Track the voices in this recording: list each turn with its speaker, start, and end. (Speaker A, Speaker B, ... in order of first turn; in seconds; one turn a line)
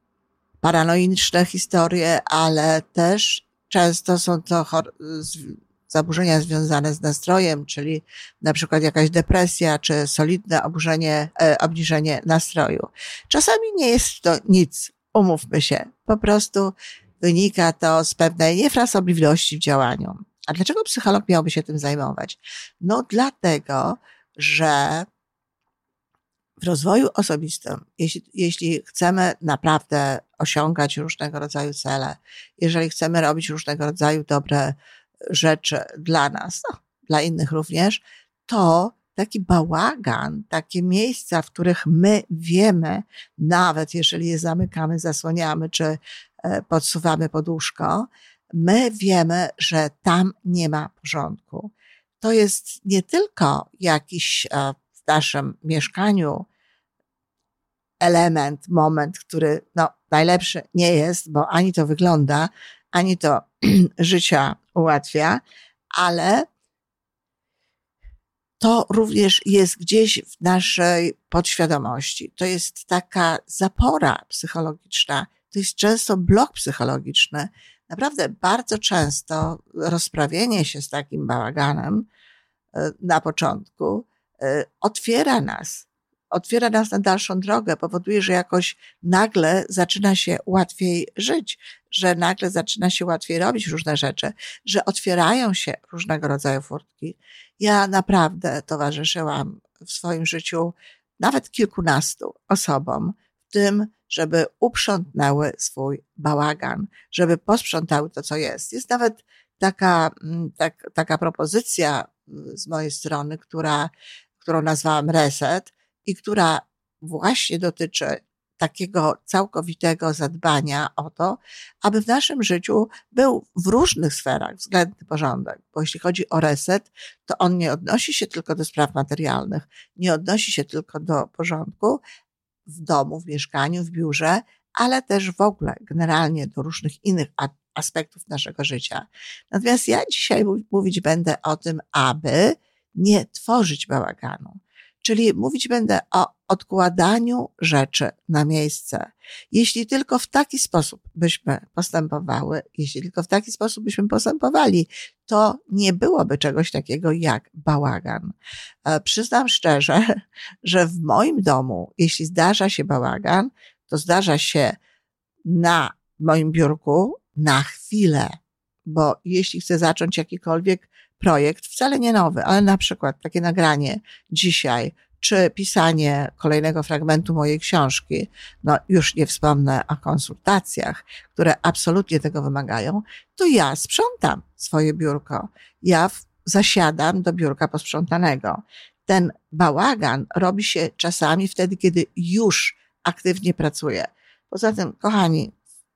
Speaker A: 0.6-25.1
Speaker A: 26.6-34.8
Speaker A: 35.3-56.5
Speaker A: 58.0-65.4
Speaker A: 65.9-66.5
Speaker A: 68.6-82.1
Speaker A: 82.7-132.0
Speaker A: 132.7-164.8
Speaker A: 165.4-195.5